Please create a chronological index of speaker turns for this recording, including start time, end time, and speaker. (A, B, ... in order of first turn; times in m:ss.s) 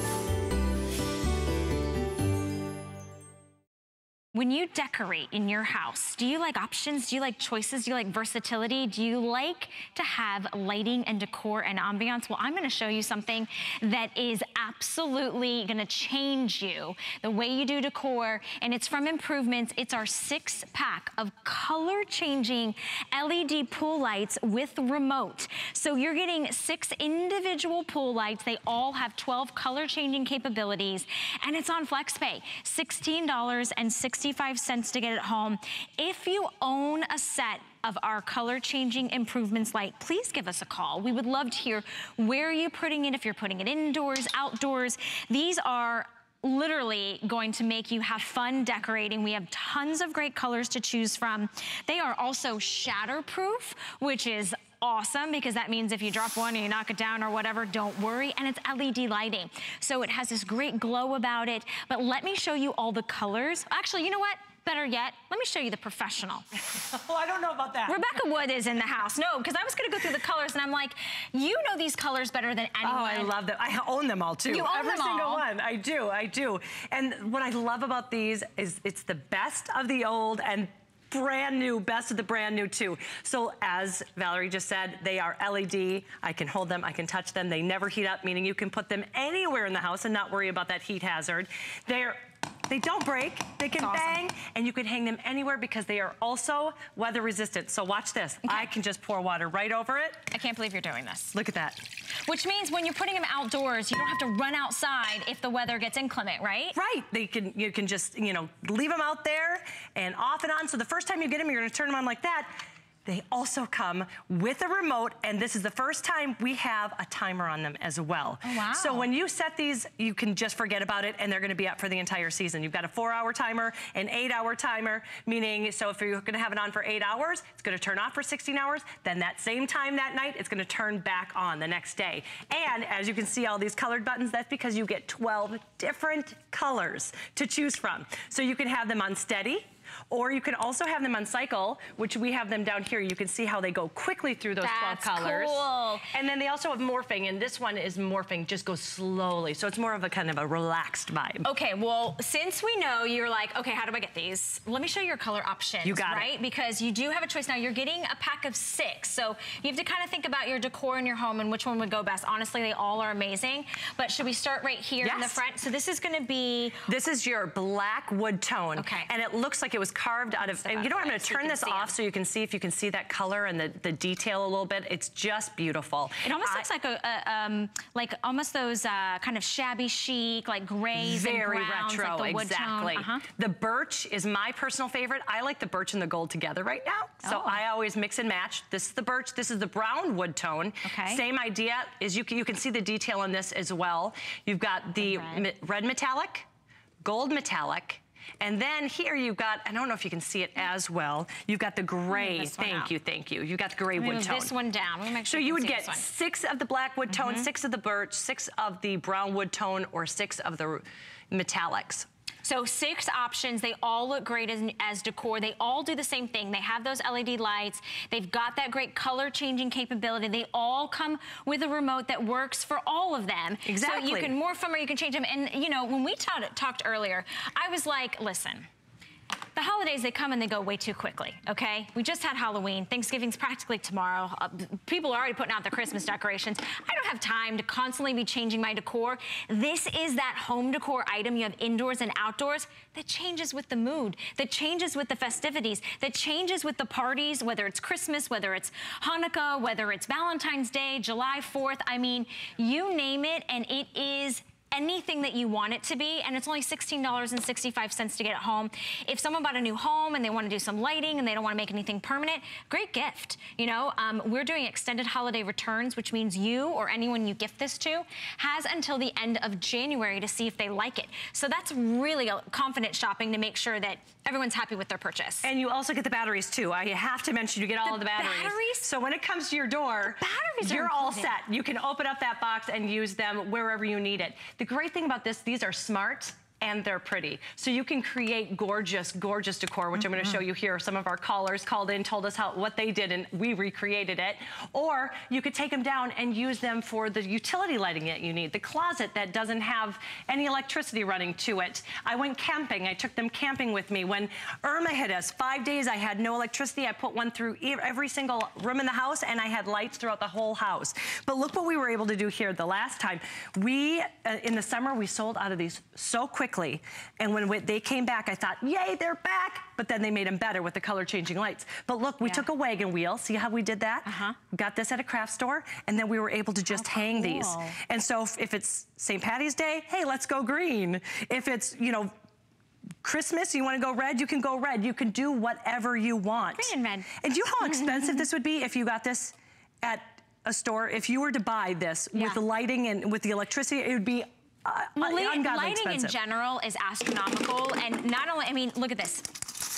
0:04.3-1:06.4 A
1:06.9-1:08.0 B
1:07.9-1:13.4 A
1:12.8-1:40.2 B
1:14.5-1:15.5 A
1:33.8-1:34.2 A
1:38.4-1:38.7 A
1:40.3-1:41.4 A
1:41.3-1:41.8 B
1:42.2-1:46.8 A
1:46.7-1:52.5 B
1:53.1-2:31.4 B
1:58.4-1:59.1 A
2:24.6-2:26.1 A
2:31.4-2:46.8 A
2:35.8-2:36.3 B
2:45.0-2:45.4 B
2:46.9-2:56.6 B
2:48.8-2:49.1 A
2:50.5-2:52.0 A
2:56.2-3:03.2 A
3:00.9-3:16.5 B
3:07.2-3:07.6 A
3:10.8-3:11.2 A
3:15.0-3:15.5 A
3:17.0-3:24.6 B
3:22.1-3:22.9 A
3:23.9-3:26.1 A
3:25.2-3:32.1 B
3:27.1-3:27.5 A
3:32.4-3:48.7 A
3:43.7-3:44.3 B
3:49.6-4:35.5 A
4:35.4-5:32.1 B
4:37.8-4:38.9 A
4:40.2-4:41.4 A
5:22.2-5:22.5 A
5:24.0-5:24.4 A
5:26.7-5:27.8 A
5:33.0-5:46.2 B
5:36.6-5:38.3 A
5:42.1-5:42.4 A
5:45.0-5:49.4 A